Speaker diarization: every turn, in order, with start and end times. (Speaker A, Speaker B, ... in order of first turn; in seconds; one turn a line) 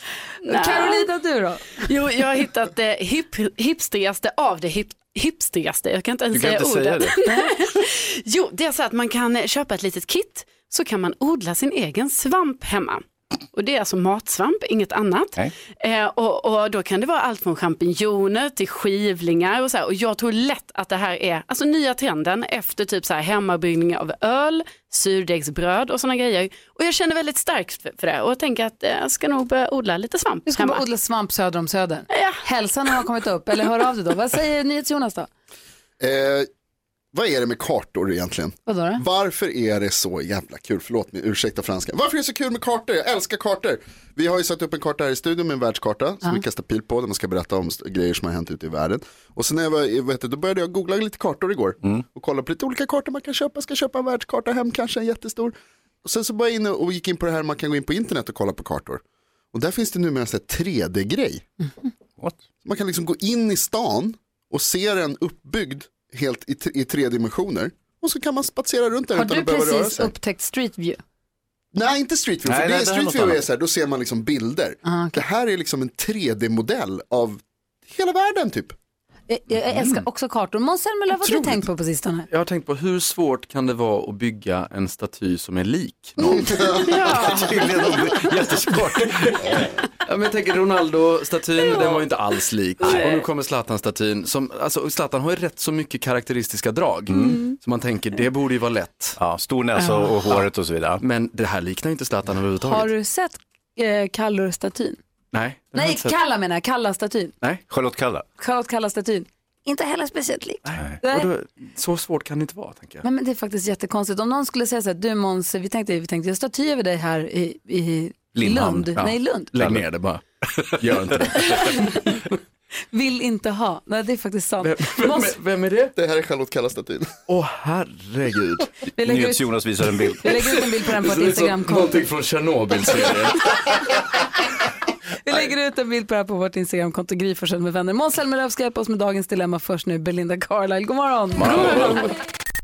Speaker A: 0.4-1.1
Speaker B: 0.5-1.8
Speaker A: 1.8-30.8
Speaker C: 6.3-7.2
Speaker B: 30.4-35.3
Speaker A: 32.1-32.4
Speaker D: 36.0-36.5
Speaker D: 37.1-59.0
Speaker B: 38.7-39.0
Speaker D: 59.5-61.4
Speaker D: 62.6-70.1
Speaker B: 69.2-71.0
Speaker D: 71.7-78.7
Speaker C: 72.4-73.4
Speaker B: 74.8-75.2
Speaker B: 79.3-82.3
Speaker E: 82.3-86.8
Speaker A: 86.7-87.5
Speaker C: 87.0-89.3
Speaker E: 88.1-99.2
Speaker C: 97.1-97.4
Speaker B: 97.1-97.5
Speaker C: 99.2-101.0
Speaker B: 99.8-100.1
Speaker E: 101.0-102.9
Speaker B: 102.6-105.0
Speaker E: 105.3-106.2
Speaker B: 105.7-107.3
Speaker C: 107.7-108.2
Speaker B: 108.4-111.3
Speaker E: 110.6-113.0
Speaker B: 113.0-119.5
Speaker C: 118.3-118.9
Speaker E: 118.9-122.3
Speaker C: 119.5-119.8
Speaker B: 121.4-122.2
Speaker B: 122.9-125.3
Speaker E: 124.6-125.9
Speaker D: 125.9-127.2
Speaker E: 127.3-128.7
Speaker B: 128.9-129.5
Speaker C: 129.0-130.5
Speaker B: 130.2-132.0
Speaker E: 130.8-133.9
Speaker B: 135.2-142.1
Speaker E: 141.4-142.1